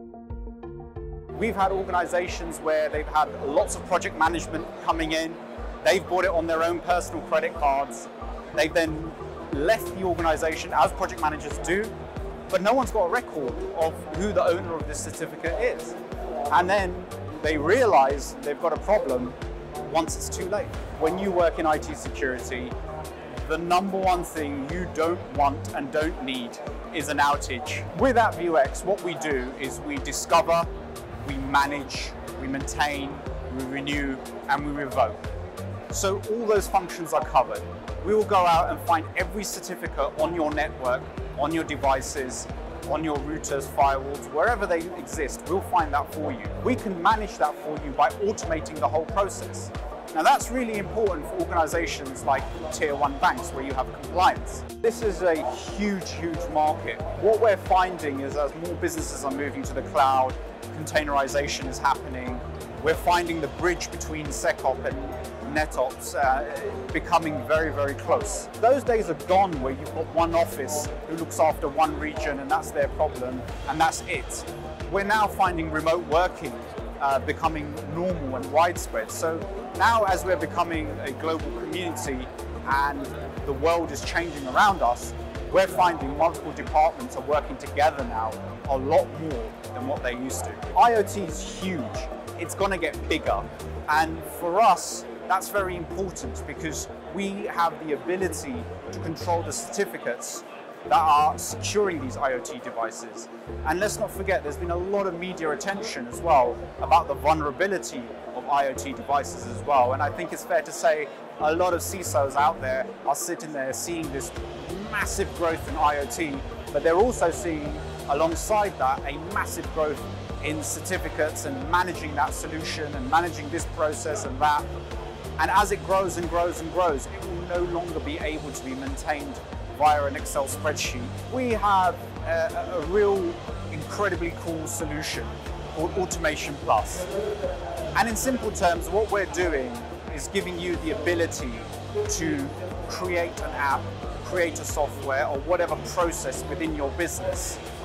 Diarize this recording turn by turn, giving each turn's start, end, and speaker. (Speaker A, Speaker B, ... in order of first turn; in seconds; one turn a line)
Speaker A: 1.3-11.9
Speaker A: 12.5-15.9
Speaker A: 16.5-22.7
Speaker A: 23.4-30.7
Speaker A: 31.2-35.2
Speaker A: 35.9-124.7
Speaker A: 125.4-137.1
Speaker A: 137.9-147.6